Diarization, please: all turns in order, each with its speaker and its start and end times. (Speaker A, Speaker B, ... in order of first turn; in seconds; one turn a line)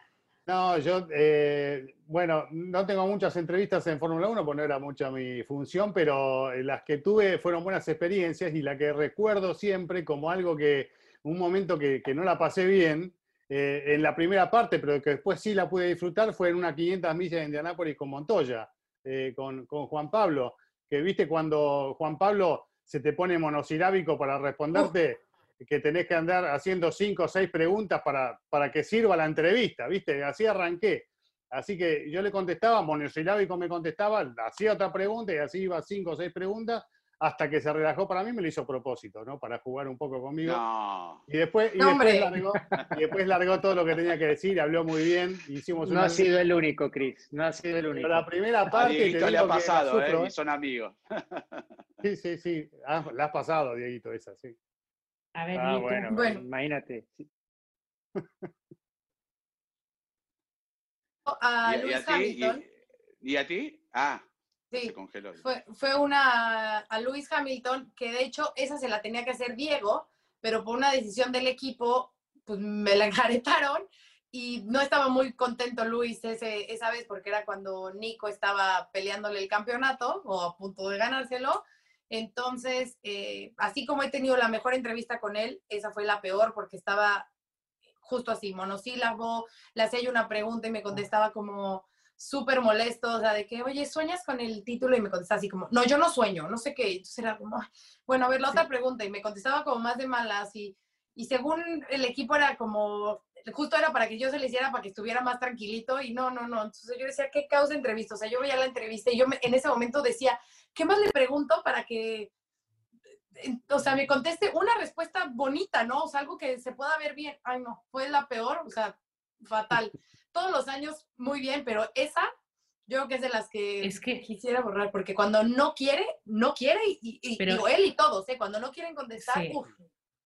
Speaker A: 0.5-40.6
Speaker B: 40.4-41.2
Speaker A: 41.3-46.3
Speaker C: 41.8-42.3
Speaker D: 42.6-42.9
Speaker D: 45.8-48.3
Speaker A: 47.9-50.3
Speaker B: 48.7-51.6
Speaker A: 52.0-54.5
Speaker E: 55.4-56.1
Speaker D: 55.5-57.2
Speaker C: 56.1-56.4
Speaker A: 58.2-58.5
Speaker C: 61.3-62.6
Speaker B: 61.6-62.7
Speaker B: 63.2-65.4
Speaker C: 64.7-87.3
Speaker C: 88.0-112.3
Speaker C: 113.3-122.3
Speaker C: 122.9-129.8
Speaker E: 123.8-124.2
Speaker E: 127.4-127.7
Speaker E: 129.2-129.6